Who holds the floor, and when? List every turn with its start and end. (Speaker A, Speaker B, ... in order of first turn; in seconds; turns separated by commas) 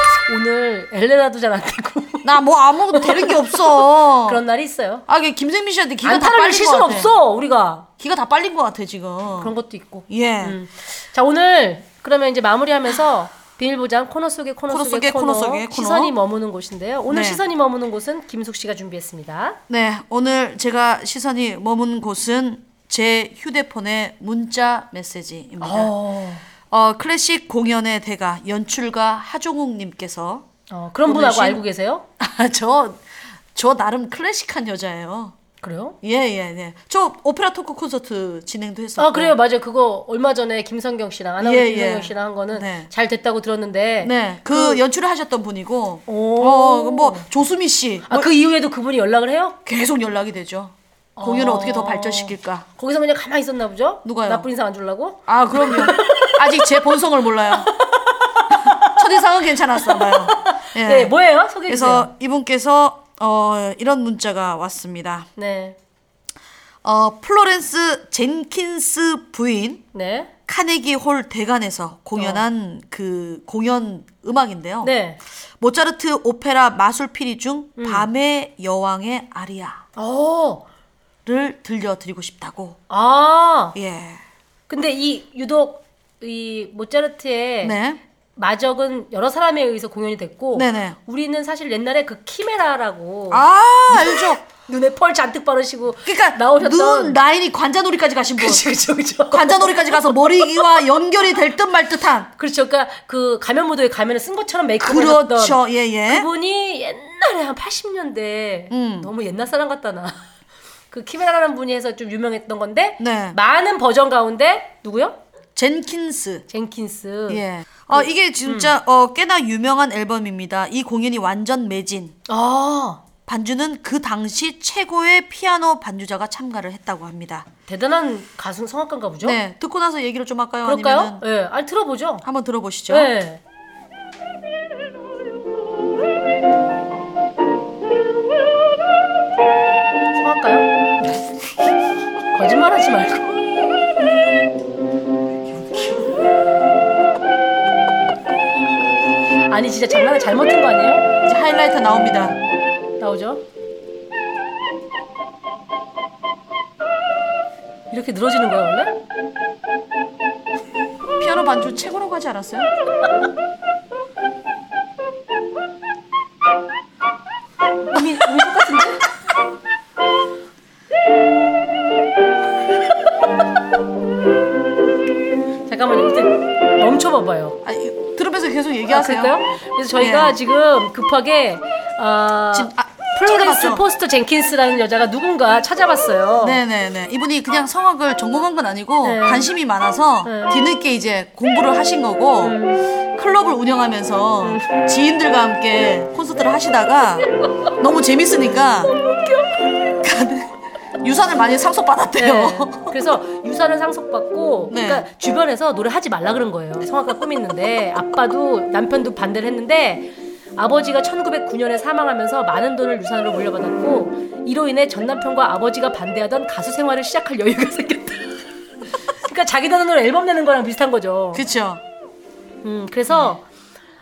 Speaker A: 0.3-2.3, Speaker B: 2.2-4.4, Speaker A: 2.9-5.1, Speaker B: 5.1-7.1, Speaker A: 6.0-7.9, Speaker B: 8.0-9.6, Speaker A: 9.4-19.6, Speaker B: 10.1-10.6, Speaker B: 14.7-16.1, Speaker B: 17.1-17.4, Speaker B: 19.7-25.9, Speaker A: 25.6-26.4, Speaker B: 26.7-30.5, Speaker A: 30.7-32.1, Speaker B: 31.1-31.6, Speaker B: 32.2-35.4, Speaker A: 35.6-36.0, Speaker B: 36.0-39.3, Speaker A: 39.0-44.8, Speaker B: 41.4-42.9, Speaker B: 44.0-48.3, Speaker A: 46.1-47.3, Speaker A: 48.1-49.6, Speaker B: 49.7-52.6, Speaker A: 51.2-56.4, Speaker B: 54.0-54.5, Speaker B: 55.3-57.7, Speaker A: 58.5-58.9, Speaker B: 58.9-61.1, Speaker A: 59.9-62.1, Speaker B: 61.7-65.3, Speaker A: 65.4-65.8, Speaker B: 66.8-69.8, Speaker A: 69.9-70.3, Speaker B: 70.5-75.0, Speaker A: 72.2-72.4, Speaker A: 74.8-75.2, Speaker B: 75.6-79.8, Speaker A: 77.8-78.1, Speaker A: 80.0-80.7, Speaker B: 81.3-82.8, Speaker A: 82.9-83.8, Speaker B: 83.7-84.2, Speaker A: 84.7-87.8, Speaker B: 87.6-88.0, Speaker A: 88.4-97.2, Speaker B: 90.5-91.0, Speaker B: 93.3-94.4, Speaker B: 96.1-98.6, Speaker A: 98.4-100.6, Speaker B: 99.3-102.3, Speaker A: 102.4-110.2, Speaker B: 104.8-106.3, Speaker B: 108.7-109.1, Speaker A: 110.9-115.2, Speaker B: 113.0-113.4, Speaker B: 115.6-116.5, Speaker A: 116.5-118.7, Speaker B: 117.3-122.2, Speaker A: 122.3-123.0, Speaker B: 123.3-127.5, Speaker A: 127.7-129.4, Speaker B: 129.2-131.2, Speaker A: 130.6-132.3, Speaker B: 132.2-133.1, Speaker A: 132.9-133.4, Speaker A: 140.1-140.7, Speaker A: 142.3-143.4, Speaker A: 149.5-151.1, Speaker B: 151.2-152.4, Speaker A: 153.0-153.4, Speaker A: 157.9-158.9, Speaker B: 161.2-162.7, Speaker A: 167.9-169.0, Speaker A: 175.7-177.6, Speaker B: 177.6-179.4, Speaker A: 178.9-186.6, Speaker B: 180.0-180.4, Speaker B: 182.5-183.8, Speaker B: 186.4-192.6, Speaker A: 189.0-189.5, Speaker A: 190.2-190.6, Speaker A: 192.4-192.8, Speaker B: 193.1-197.3, Speaker A: 194.4-194.7, Speaker B: 197.8-198.9, Speaker A: 198.9-199.7, Speaker B: 200.0-200.5, Speaker B: 201.0-202.9, Speaker A: 202.2-218.4, Speaker B: 204.7-205.1, Speaker A: 219.1-221.4, Speaker B: 221.3-221.8, Speaker A: 222.6-223.4